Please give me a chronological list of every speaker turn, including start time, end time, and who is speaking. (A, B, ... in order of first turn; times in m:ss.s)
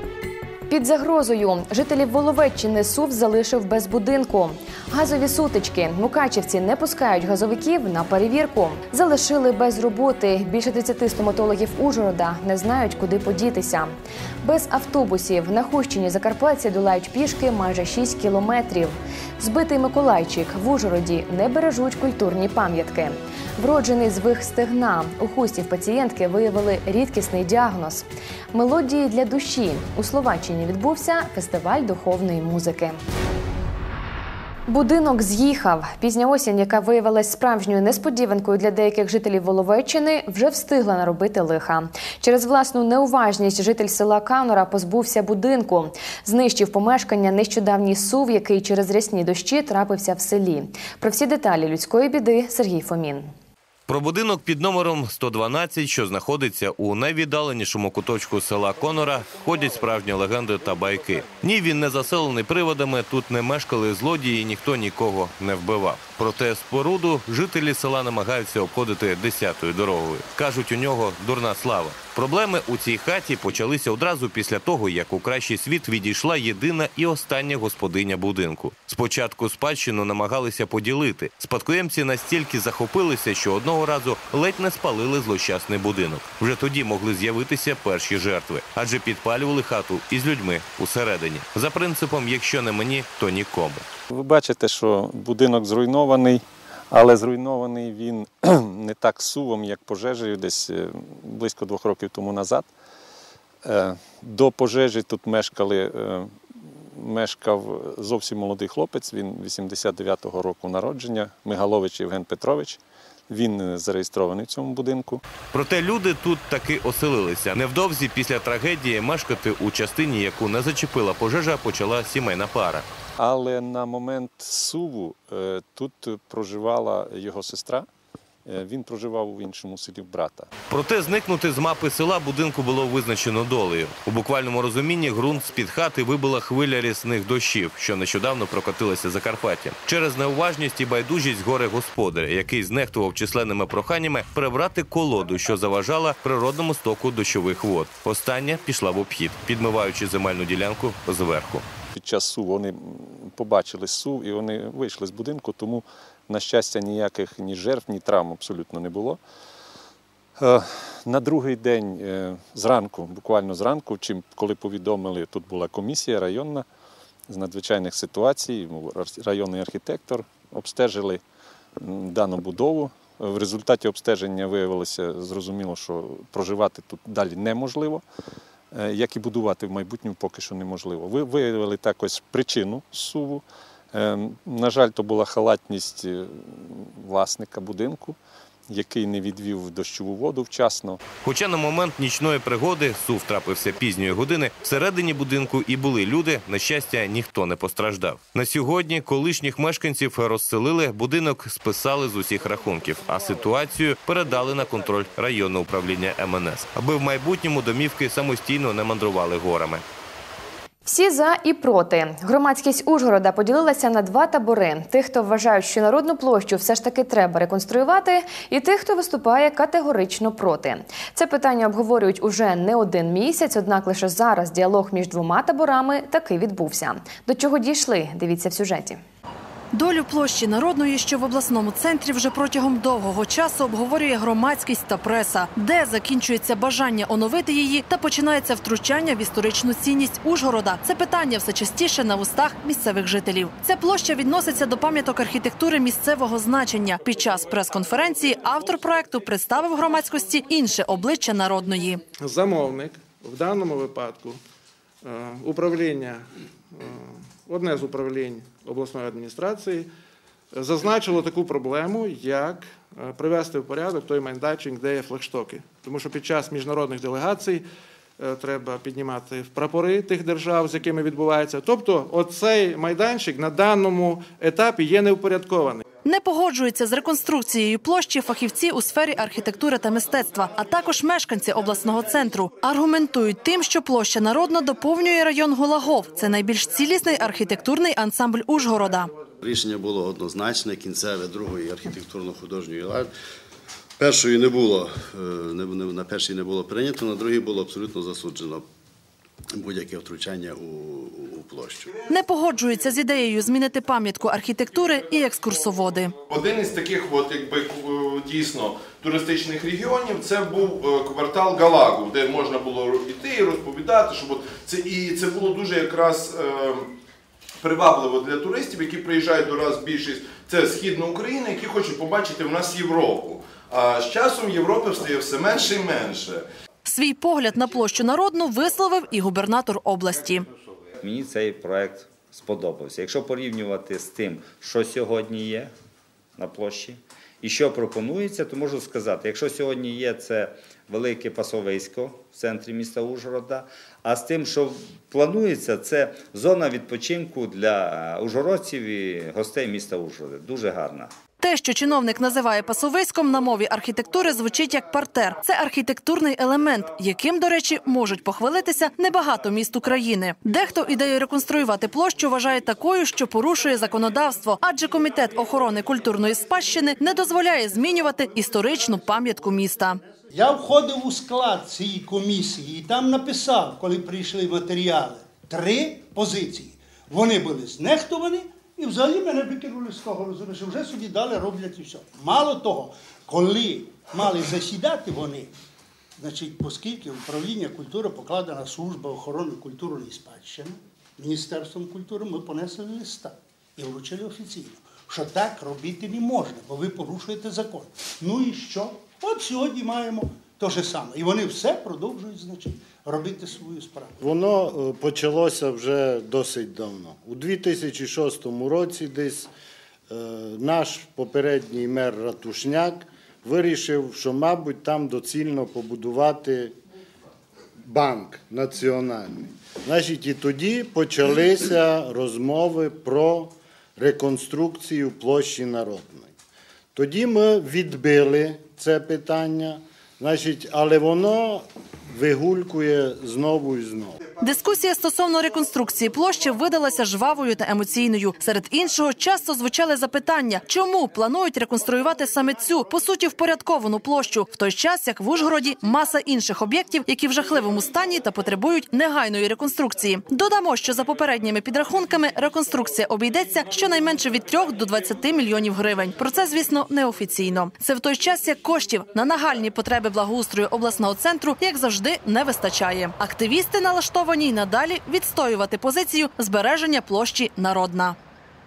0:00.7-0:33.0 A
0:34.7-0:53.3 A
0:53.9-1:33.8 B
1:34.1-1:42.7 C
1:43.6-1:55.2 C
1:55.5-2:02.9 B
2:03.2-2:07.9 C
2:08.4-2:10.5 C
2:10.7-2:31.6 B
2:32.0-2:39.2 C
2:40.4-2:46.7 C
2:47.3-2:51.2 C
2:51.8-2:58.0 C
2:58.7-3:08.2 C
3:08.7-3:11.0 C
3:11.2-3:29.8 B
3:30.9-3:49.0 A
3:49.7-4:12.0 D
4:12.2-4:14.4 E
4:15.0-4:19.9 E
4:20.6-4:27.6 E
4:28.2-4:35.8 E
4:36.0-4:49.1 D
4:49.4-4:53.1 F
4:54.0-4:58.6 F
4:59.5-5:02.0 F
5:02.1-5:06.1 D
5:06.3-5:16.9 G
5:17.6-5:26.5 G
5:26.8-5:30.5 D
5:31.0-5:35.7 H
5:36.4-5:51.1 H
5:51.4-6:10.0 D
6:10.3-6:25.5 I
6:26.2-6:44.2 I
6:44.3-6:49.5 J
6:50.3-6:56.7 J
6:57.9-6:59.2 J
6:59.9-7:03.5 J
7:04.0-7:06.2 J
7:07.0-7:11.5 J
7:12.2-7:14.0 J
7:14.4-7:48.2 D